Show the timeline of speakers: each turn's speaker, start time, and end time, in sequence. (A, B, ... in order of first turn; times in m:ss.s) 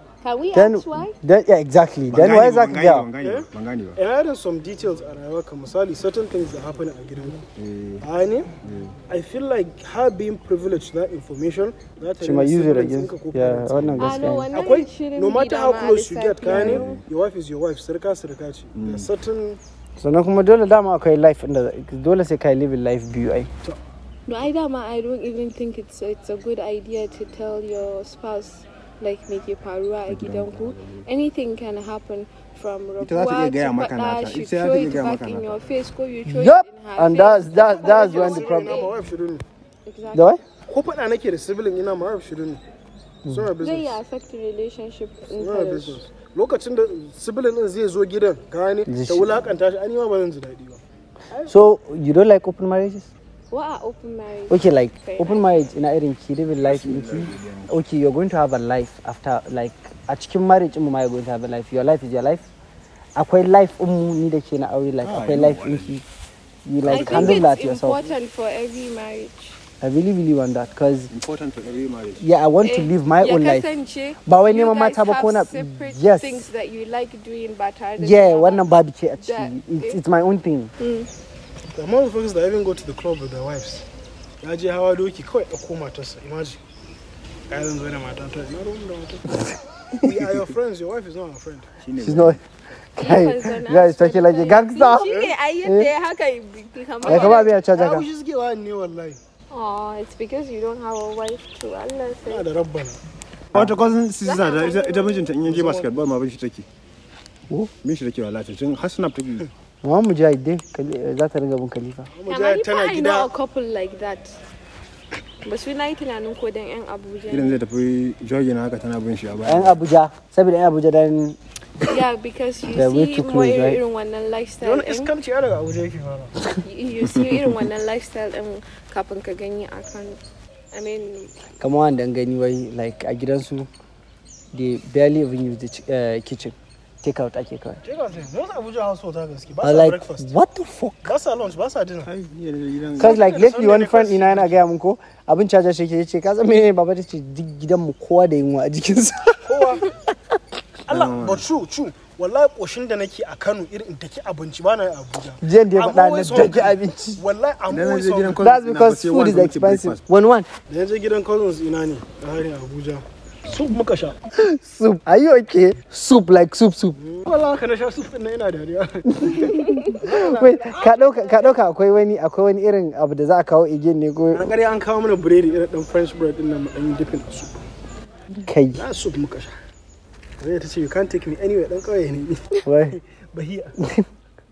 0:00.2-0:01.1 A
0:00.5-0:03.1 B
0:02.1-0:04.0 C
0:03.2-0:07.5 D
0:07.6-0:08.0 C
0:08.0-0:08.5 D
0:08.6-0:09.0 C
0:09.1-0:19.6 D
0:12.2-0:14.5 B
0:14.0-0:16.8 A
0:16.5-0:17.0 C
0:18.8-0:19.1 C
0:20.0-0:23.5 B
0:24.3-0:38.9 A
0:30.0-0:31.1 C
0:33.0-0:35.6 C
0:36.2-0:38.8 B
0:37.8-0:39.4 D
0:39.8-0:40.3 A
0:40.1-0:40.4 B
0:40.7-0:42.6 D
0:43.2-0:44.0 D
0:43.6-0:46.0 A
0:45.3-0:50.8 D
0:48.8-0:49.5 B
0:51.5-0:53.1 B
0:53.5-0:55.7 A
0:54.5-1:02.5 B
0:56.6-0:57.8 C
1:03.1-1:06.0 B
1:05.0-1:06.0 C
1:06.6-1:08.0 B
1:06.8-1:07.4 C
1:06.9-1:09.6 A
1:09.8-1:11.1 B
1:11.1-1:12.2 C
1:12.2-1:13.7 B
1:12.6-1:20.0 A
1:14.2-1:16.5 B
1:18.0-1:20.7 B
1:20.8-1:21.1 A
1:21.7-1:23.8 D
1:24.4-1:26.6 D
1:27.5-1:29.4 D
1:30.0-1:31.7 D
1:31.8-1:32.4 C
1:32.0-1:32.4 B
1:32.9-1:35.9 B
1:33.0-1:37.5 A
1:35.1-1:35.3 D
1:37.0-1:39.2 D
1:37.0-1:38.0 B
1:39.5-1:42.4 A
1:42.2-1:43.0 D
1:43.5-1:46.6 C
1:44.2-1:45.3 A
1:45.4-1:46.0 D
1:47.8-1:49.5 C
1:49.8-1:52.1 B
1:52.1-1:53.3 D
1:52.3-1:54.4 A
1:55.4-1:57.6 A
1:57.3-1:59.8 C
1:59.4-2:01.4 B
2:01.8-2:05.1 A
2:02.7-2:03.8 B
2:04.6-2:06.3 D
2:06.6-2:10.2 A
2:10.7-2:11.3 A
2:11.6-2:13.7 B
2:14.5-2:17.8 B
2:17.8-2:20.3 D
2:19.6-2:21.1 B
2:21.0-2:22.1 D
2:22.0-2:23.2 C
2:23.0-2:29.7 B
2:23.0-2:24.6 D
2:29.4-2:29.9 D
2:30.9-2:38.4 D
2:30.9-2:31.4 C
2:35.4-2:37.2 B
2:37.7-2:40.0 C
2:38.4-2:40.5 B
2:40.7-2:44.2 D
2:44.3-2:47.0 B
2:47.0-2:51.5 D
2:49.1-2:54.5 B
2:54.3-2:57.6 D
2:58.4-2:58.8 B
2:58.8-2:59.5 D
3:00.4-3:03.7 D
3:02.6-3:03.0 B